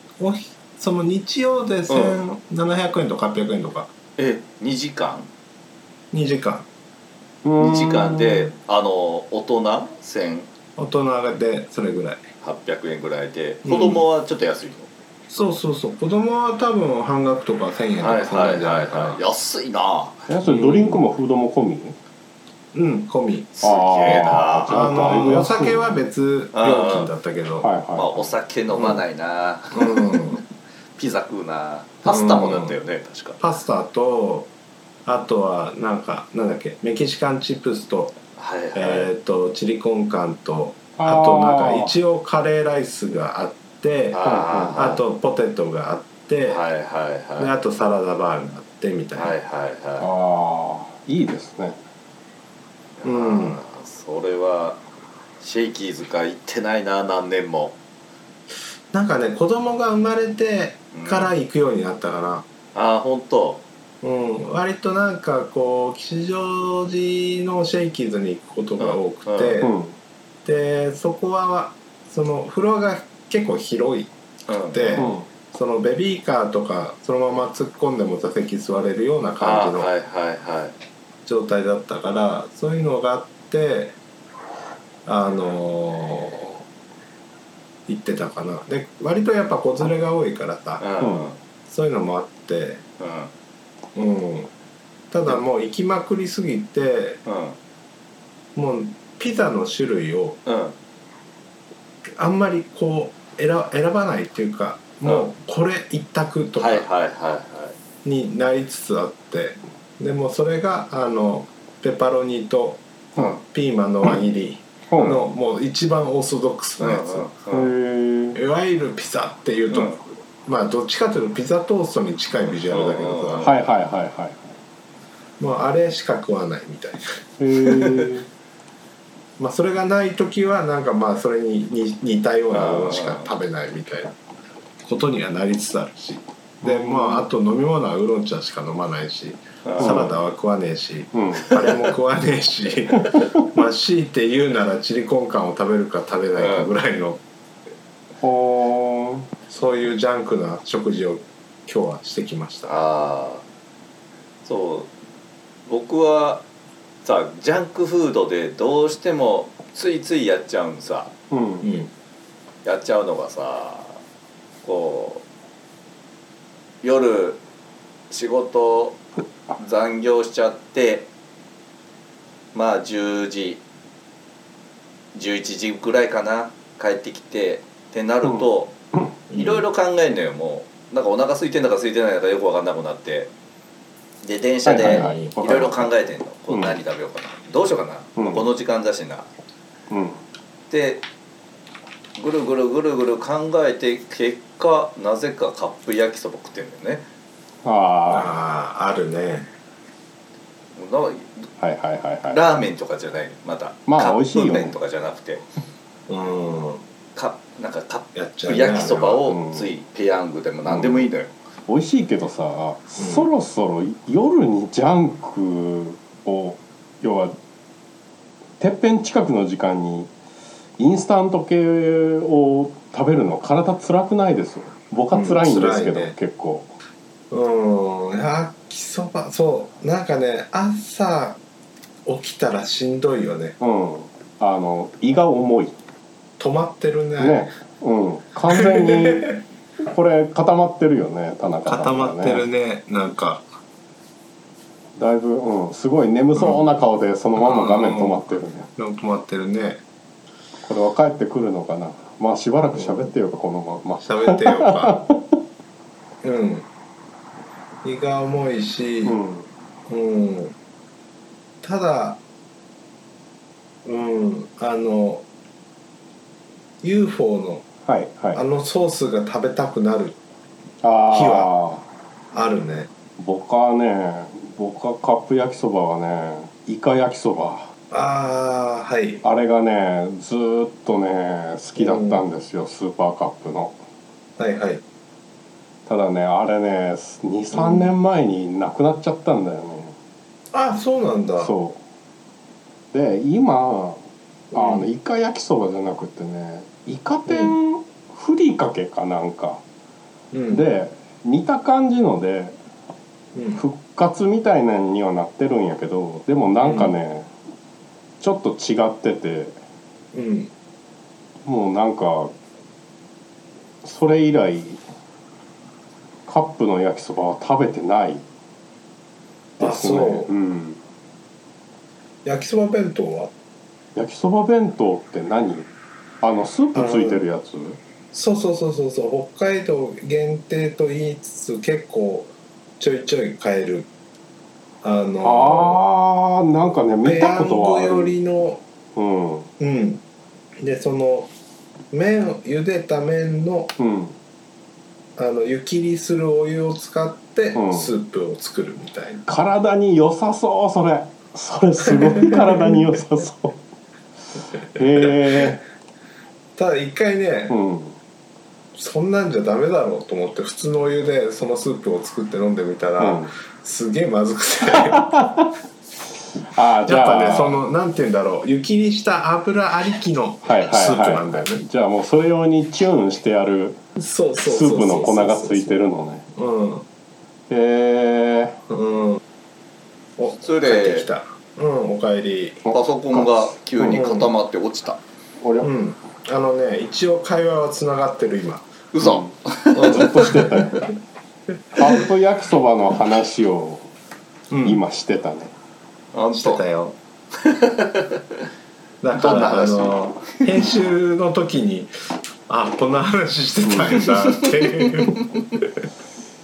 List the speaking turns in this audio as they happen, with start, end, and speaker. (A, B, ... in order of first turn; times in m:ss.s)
0:00.2-0:03.9 A
0:01.9-0:02.2 B
0:04.2-0:05.3 B
0:06.1-0:06.6 A
0:07.4-0:08.5 C
0:07.6-0:10.5 B
0:10.8-0:12.2 A
0:12.4-0:14.9 B
0:13.6-0:14.0 A
0:15.3-0:19.2 A
0:18.0-0:20.2 B
0:20.3-0:22.0 C
0:20.4-0:21.0 A
0:22.7-0:23.5 A
0:23.5-0:25.0 B
0:23.6-0:26.0 C
0:24.1-0:27.7 A
0:26.5-0:27.1 B
0:27.6-0:28.3 C
0:27.9-0:30.4 B
0:28.7-0:29.0 A
0:29.7-0:30.4 A
0:31.0-0:33.4 B
0:32.0-0:32.7 A
0:33.4-0:34.5 A
0:35.0-0:38.2 A
0:38.4-0:39.1 B
0:38.7-0:46.6 A
0:41.0-0:41.9 C
0:44.1-0:45.0 B
0:44.2-0:45.0 C
0:46.4-0:47.5 B
0:47.4-0:49.3 A
0:49.1-0:50.1 B
0:50.0-0:51.8 C
0:53.0-0:54.8 B
0:53.0-0:53.6 A
0:55.4-0:57.8 B
0:58.9-1:02.5 A
1:00.9-1:01.3 B
1:02.7-1:03.6 B
1:04.0-1:09.7 A
1:08.8-1:09.6 B
1:09.6-1:09.9 C
1:10.4-1:14.1 A
1:14.5-1:15.1 B
1:14.7-1:19.9 A
1:15.0-1:15.3 C
1:19.4-1:20.8 B
1:21.2-1:24.0 A
1:25.0-1:26.6 A
1:27.9-1:30.8 A
1:30.8-1:31.4 B
1:31.0-1:31.3 C
1:31.7-1:32.8 A
1:33.0-1:33.3 B
1:33.9-1:34.5 A
1:35.1-1:37.2 A
1:37.2-1:37.6 B
1:38.6-1:40.4 A
1:40.4-1:40.8 B
1:42.2-1:46.8 A
1:46.6-1:47.8 B
1:48.0-1:52.8 A
1:53.2-1:53.4 B
1:53.4-1:57.3 A
1:54.9-1:55.2 C
1:55.0-1:55.2 B
1:56.8-1:57.7 B
1:57.5-1:58.4 C
1:58.3-2:03.6 A
1:59.7-2:00.0 B
2:02.7-2:03.6 B
2:03.4-2:04.6 C
2:05.4-2:08.0 A
2:07.4-2:08.3 C
2:09.4-2:14.1 A
2:12.5-2:13.3 B
2:14.8-2:27.2 A
2:16.6-2:17.3 C
2:19.6-2:20.1 B
2:19.8-2:20.1 C
2:21.1-2:21.5 C
2:23.1-2:23.4 C
2:26.4-2:26.7 B
2:28.2-2:29.3 C
2:29.5-2:32.7 A
2:32.7-2:33.4 B
2:34.4-2:34.9 B
2:35.6-2:36.4 B
2:37.0-2:41.1 B
2:41.3-2:41.7 C
2:41.6-2:41.9 A
2:42.6-2:44.0 B
2:44.6-2:45.2 B
2:46.8-2:47.4 B
2:48.1-2:49.0 B
2:49.5-2:51.1 B
2:52.5-2:53.6 B
2:55.1-2:58.7 B
2:58.2-2:59.2 C
2:59.3-2:59.6 A
2:59.3-3:03.3 B
3:04.2-3:09.3 B
3:04.6-3:05.9 C
3:04.8-3:05.3 A
3:06.5-3:06.8 C
3:08.2-3:08.4 C
3:09.9-3:10.2 C
3:10.7-3:11.0 B
3:12.2-3:17.0 B
3:17.6-3:18.4 C
3:18.1-3:19.5 A
3:20.8-3:21.5 B
3:21.6-3:22.4 C
3:22.3-3:25.4 B
3:23.8-3:24.8 C
3:26.1-3:26.8 A
3:27.2-3:31.3 B
3:28.1-3:29.2 A
3:29.3-3:29.7 C
3:30.7-3:31.1 C
3:31.7-3:37.4 C
3:33.0-3:33.3 A
3:38.6-3:40.1 C
3:40.8-3:46.7 C
3:45.1-3:46.2 A
3:47.3-3:51.4 A
3:52.0-3:53.6 A
3:53.6-3:55.8 C
3:56.4-3:57.5 A
3:57.2-4:02.4 C
3:58.5-3:59.4 A
4:01.6-4:03.4 A
4:05.0-4:08.7 C
4:07.4-4:08.2 A
4:08.8-4:09.8 A
4:10.6-4:15.4 C
4:12.7-4:13.1 A
4:14.0-4:15.0 A
4:16.2-4:16.7 A
4:17.8-4:19.2 A
4:19.0-4:19.5 C
4:19.9-4:20.5 A
4:21.6-4:22.2 A
4:23.8-4:25.2 A
4:26.8-4:27.7 A
4:27.8-4:28.4 C
4:28.3-4:30.2 A
4:30.8-4:31.8 C
4:31.1-4:31.5 A
4:32.3-4:32.9 A
4:33.2-4:37.7 C
4:37.9-4:39.2 A
4:39.2-4:43.8 C
4:41.8-4:42.2 A
4:44.4-4:44.8 A
4:45.8-4:50.0 C
4:47.5-4:47.9 A
4:50.5-4:51.5 A
4:51.4-4:51.8 C
4:52.9-4:54.0 C
4:54.5-4:54.9 A
4:54.5-4:59.6 C
4:57.3-4:57.5 A
5:00.3-5:00.6 A
5:00.5-5:02.6 C
5:03.3-5:03.6 A
5:03.6-5:07.3 C
5:06.6-5:06.9 A
5:08.2-5:09.6 C
5:10.1-5:10.5 A
5:11.4-5:12.3 C
5:13.8-5:14.8 C
5:16.2-5:18.2 C
5:19.6-5:20.8 C
5:19.6-5:20.3 A
5:22.2-5:23.3 A
5:23.9-5:25.7 C
5:26.2-5:27.8 C
5:26.7-5:27.2 A
5:28.1-5:33.9 A
5:34.8-5:35.8 A
5:35.2-5:38.1 C
5:37.0-5:38.6 A
5:38.9-5:39.5 C
5:39.6-5:40.0 A
5:40.6-5:41.3 A
5:41.9-5:43.7 A
5:43.8-5:44.1 C
5:45.2-5:49.3 A
5:47.5-5:47.9 C
5:49.3-5:53.6 C
5:51.9-5:52.9 A
5:54.7-5:55.6 C
5:54.7-5:55.6 A
5:56.6-5:57.6 A
5:57.5-5:58.0 C
5:58.7-6:05.1 A
6:03.0-6:03.3 C
6:04.7-6:05.5 C
6:06.4-6:07.6 C
6:06.8-6:11.6 A
6:10.4-6:13.8 C
6:14.0-6:15.7 A
6:14.4-6:16.3 C
6:16.3-6:16.8 A
6:17.5-6:18.6 C
6:18.7-6:19.2 A
6:20.2-6:22.6 A
6:20.4-6:21.1 B
6:22.6-6:24.0 C
6:22.7-6:25.0 B
6:23.9-6:24.3 A
6:25.4-6:25.7 C
6:25.6-6:28.6 A
6:28.9-6:30.4 B
6:29.0-6:30.9 C
6:29.8-6:30.7 A
6:31.8-6:33.9 C
6:34.5-6:34.8 A
6:34.6-6:35.5 C
6:36.1-6:36.6 B
6:36.3-6:37.0 A
6:37.4-6:38.4 B
6:39.0-6:41.9 A
6:39.1-6:40.0 B
6:42.5-6:45.7 A
6:43.6-6:44.1 C